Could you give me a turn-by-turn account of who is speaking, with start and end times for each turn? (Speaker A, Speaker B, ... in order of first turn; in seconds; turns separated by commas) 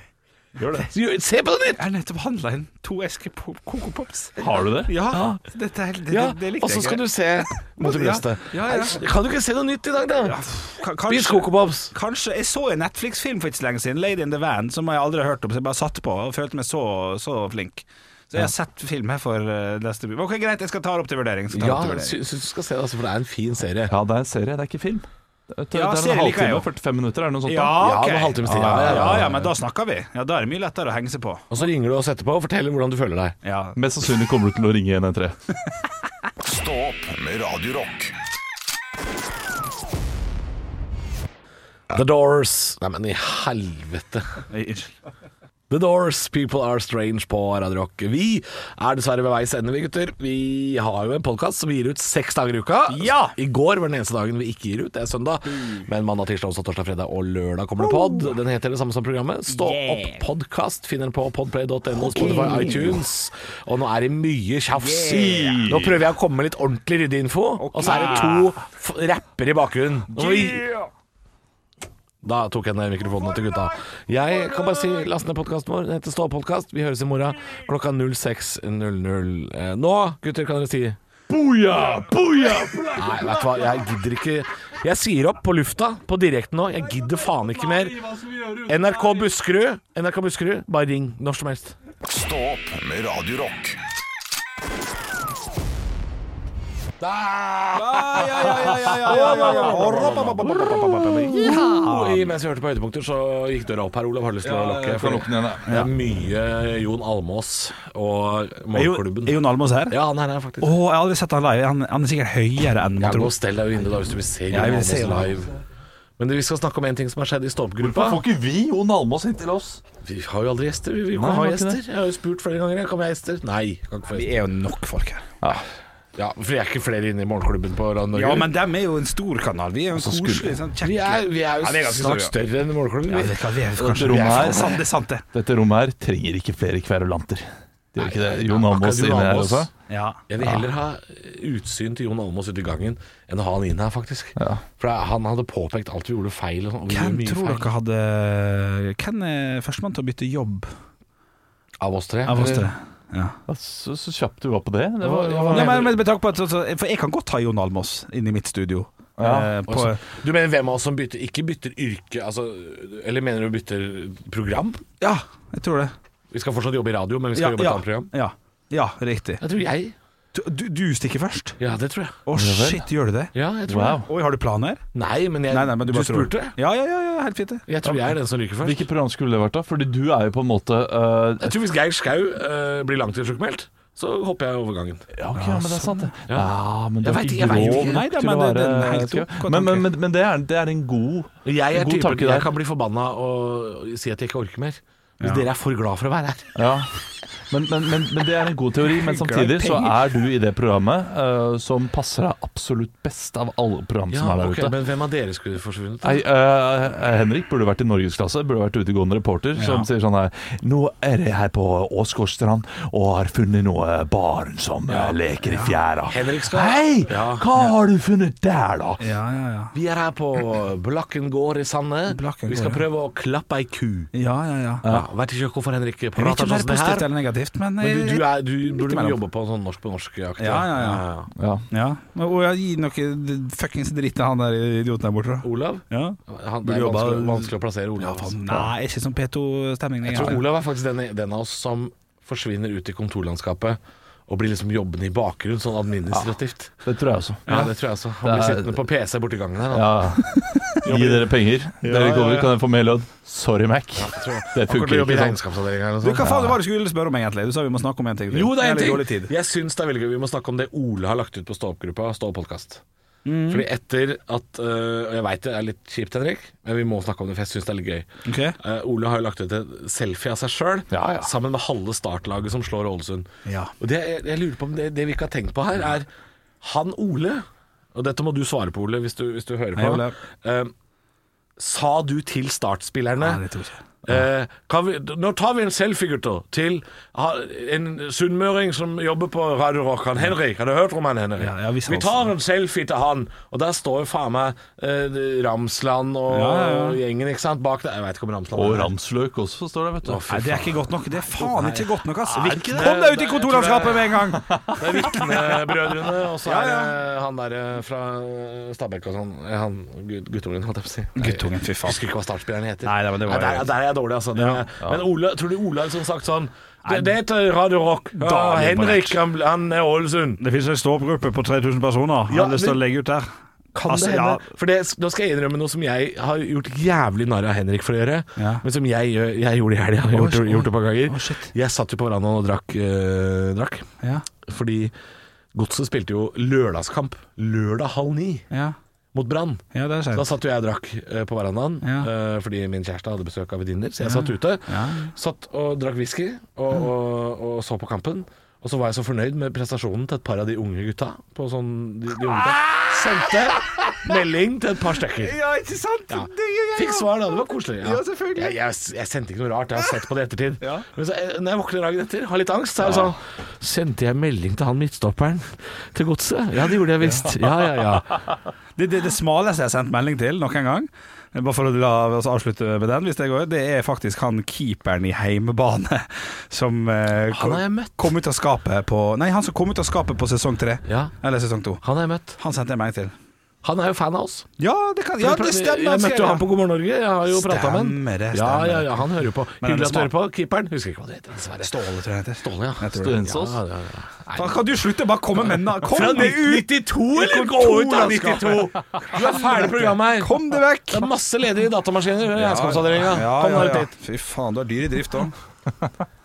Speaker A: 0.6-0.9, Speaker B: 0.9-1.8, Speaker A: 1.7-7.1, Speaker C: 4.4-4.9, Speaker B: 5.1-5.4, Speaker B: 6.1-10.4, Speaker A: 7.7-9.0, Speaker A: 10.2-22.2, Speaker B: 11.1-11.9, Speaker B: 21.5-23.9, Speaker C: 23.9-27.9, Speaker A: 25.7-26.7, Speaker A: 27.5-31.5, Speaker B: 27.8-29.5, Speaker C: 28.7-29.3, Speaker B: 31.5-33.4, Speaker A: 33.4-33.8, Speaker C: 33.8-35.4, Speaker D: 36.4-38.2, Speaker B: 41.9-44.3, Speaker A: 44.5-44.9, Speaker B: 45.7-70.7, Speaker A: 52.9-53.4, Speaker A: 57.8-58.3, Speaker A: 59.5-60.2, Speaker A: 62.1-63.0, Speaker A: 64.7-65.7, Speaker C: 65.0-66.0, Speaker A: 67.6-68.6, Speaker A: 70.1-70.9, Speaker B: 72.2-81.0, Speaker C: 81.3-83.9, Speaker B: 83.0-88.0, Speaker C: 86.9-89.3, Speaker B: 88.7-91.8, Speaker D: 92.0-93.8, Speaker B: 97.0-100.6, Speaker A: 97.7-102.2, Speaker C: 99.2-102.1, Speaker B: 101.2-110.7, Speaker C: 104.4-105.9, Speaker A: 108.7-110.0, Speaker A: 110.6-113.3, Speaker B: 113.0-115.6, Speaker A: 114.5-115.3, Speaker B: 116.2-118.2, Speaker C: 117.8-119.8, Speaker B: 120.0-124.3, Speaker C: 121.1-121.8, Speaker A: 124.1-125.3, Speaker B: 126.2-128.5, Speaker A: 128.1-132.4, Speaker C: 129.9-130.5, Speaker B: 130.8-134.8, Speaker A: 133.1-135.2, Speaker C: 133.8-139.7, Speaker B: 138.0-139.7, Speaker A: 139.9-140.2, Speaker B: 140.3-147.7, Speaker C: 144.4-144.6, Speaker A: 146.9-150.7, Speaker B: 151.8-152.7, Speaker A: 152.2-153.4, Speaker C: 153.5-156.0, Speaker B: 155.0-155.9, Speaker A: 155.5-160.0, Speaker C: 159.2-159.6, Speaker B: 159.7-164.8, Speaker A: 165.0-165.9, Speaker B: 166.3-168.1, Speaker A: 167.3-169.4, Speaker B: 169.4-169.9, Speaker A: 170.3-171.6, Speaker B: 171.6-172.2, Speaker A: 172.2-173.3, Speaker C: 172.3-172.9, Speaker B: 173.3-174.1, Speaker C: 173.7-174.1, Speaker A: 174.1-174.8, Speaker B: 174.9-176.5, Speaker A: 175.5-177.7, Speaker B: 177.7-178.8, Speaker C: 178.6-181.6, Speaker B: 181.4-185.5, Speaker C: 185.2-192.5, Speaker A: 185.3-186.1, Speaker B: 186.2-188.1, Speaker A: 187.4-189.9, Speaker B: 191.4-196.5, Speaker A: 195.2-195.5, Speaker C: 196.6-196.9, Speaker C: 197.5-204.7, Speaker A: 198.8-200.0, Speaker B: 204.1-206.2, Speaker C: 206.0-219.0, Speaker A: 209.6-209.9, Speaker A: 215.4-215.8, Speaker B: 216.1-217.4, Speaker A: 219.0-219.7, Speaker B: 219.7-224.1, Speaker A: 222.1-222.8, Speaker A: 224.1-224.9, Speaker B: 224.8-227.1, Speaker A: 226.2-229.2, Speaker B: 227.8-231.3, Speaker A: 230.4-231.0, Speaker C: 231.3-231.7, Speaker A: 231.7-240.4, Speaker B: 235.4-238.7, Speaker B: 240.0-246.7, Speaker C: 246.1-247.7, Speaker B: 247.5-250.2, Speaker C: 248.2-248.8, Speaker C: 249.7-255.4, Speaker B: 250.8-251.3, Speaker A: 251.8-252.5, Speaker B: 254.0-256.6, Speaker A: 256.0-259.3, Speaker B: 258.3-262.8, Speaker A: 263.2-263.6, Speaker B: 263.5-268.1, Speaker A: 268.2-268.6, Speaker B: 268.6-273.3, Speaker C: 270.9-271.3, Speaker A: 273.4-273.7, Speaker B: 273.8-276.1, Speaker B: 276.6-277.4, Speaker B: 277.9-280.7, Speaker A: 279.8-280.1, Speaker B: 281.6-283.4, Speaker A: 283.2-283.9, Speaker B: 284.1-298.9, Speaker A: 291.4-292.3, Speaker A: 296.3-297.0, Speaker C: 298.5-300.2, Speaker B: 300.0-320.4, Speaker A: 300.3-305.1, Speaker C: 304.5-304.9, Speaker A: 306.4-307.0, Speaker A: 311.1-312.0, Speaker A: 312.8-313.7, Speaker A: 314.4-314.6, Speaker A: 316.8-317.1, Speaker A: 318.2-319.2, Speaker A: 320.4-323.3, Speaker B: 322.3-322.8, Speaker B: 323.7-333.9, Speaker A: 323.8-324.5, Speaker A: 328.4-328.6, Speaker A: 330.1-331.5, Speaker A: 334.0-334.2, Speaker B: 334.4-334.9, Speaker B: 335.5-338.4, Speaker A: 338.5-338.8, Speaker B: 339.1-355.4, Speaker A: 339.7-340.3, Speaker A: 341.8-342.1, Speaker A: 344.0-345.1, Speaker A: 352.3-354.0, Speaker A: 355.1-358.6, Speaker B: 356.1-368.2, Speaker A: 360.6-360.9, Speaker A: 368.8-381.8, Speaker B: 377.3-378.1, Speaker B: 380.8-381.1, Speaker B: 381.8-382.4, Speaker A: 382.4-383.1, Speaker B: 383.6-384.4, Speaker A: 384.6-386.5, Speaker B: 385.2-394.7, Speaker A: 387.3-389.0, Speaker A: 389.6-390.1, Speaker A: 391.6-393.2, Speaker C: 392.9-393.6, Speaker A: 394.3-401.1, Speaker B: 395.8-403.9, Speaker A: 402.3-405.3